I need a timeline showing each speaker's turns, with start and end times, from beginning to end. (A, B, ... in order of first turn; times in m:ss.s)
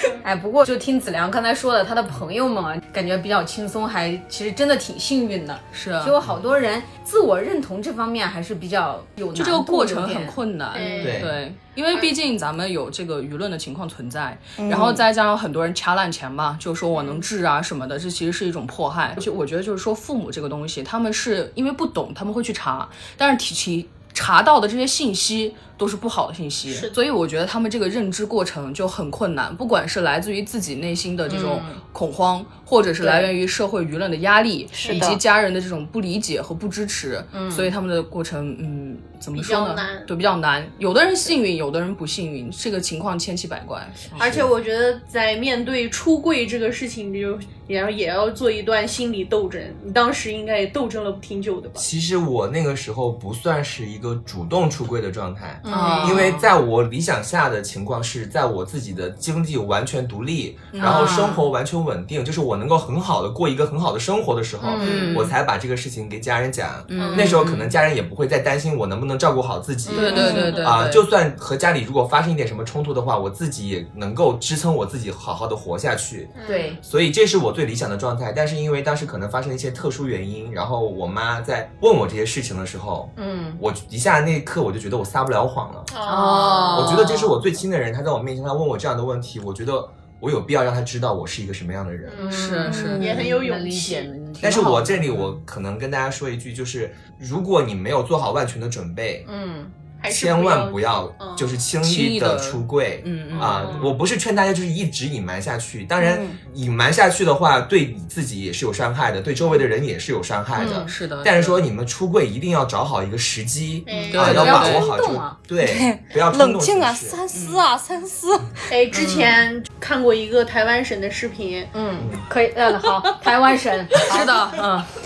0:00.2-0:11.1 A
0:05.7-0:06.2 B
0:09.4-0:44.2 B
0:10.7-0:11.2 C
0:11.0-0:11.3 D
0:14.6-0:15.0 E
0:26.7-0:26.9 C
0:31.3-0:31.8 A
0:33.0-0:33.3 A
0:34.8-0:35.2 E
0:37.3-0:37.7 A
0:39.3-0:40.1 C
0:44.2-0:51.8 C
0:44.2-0:44.5 D
0:51.8-1:25.9 D
0:55.6-0:56.4 A
0:55.7-0:56.4 B
1:00.7-1:01.4 B
1:00.8-1:01.4 A
1:04.6-1:05.3 A
1:04.8-1:05.3 B
1:06.9-1:07.8 B
1:07.0-1:07.3 A
1:09.9-1:10.6 A
1:09.9-1:11.0 B
1:16.3-1:16.8 C
1:16.5-1:16.8 A
1:23.2-1:23.6 A
1:25.9-1:27.0 C
1:26.1-1:27.1 B
1:26.1-1:27.2 A
1:26.7-1:32.2 D
1:32.0-1:34.1 C
1:32.2-1:35.2 A
1:32.3-1:33.2 B
1:34.4-1:39.3 D
1:39.3-1:39.7 A
1:40.0-1:41.6 C
1:40.1-1:57.2 D
1:41.8-1:44.0 B
1:43.4-1:43.8 C
1:46.0-1:46.4 E
1:50.6-1:51.6 B
1:53.9-1:54.5 C
1:54.0-1:55.4 A
1:54.1-1:54.9 B
1:55.6-1:58.6 E
1:57.3-1:57.6 B
1:58.7-2:01.7 C
2:01.7-2:04.3 A
2:02.0-2:02.2 D
2:04.0-2:04.9 B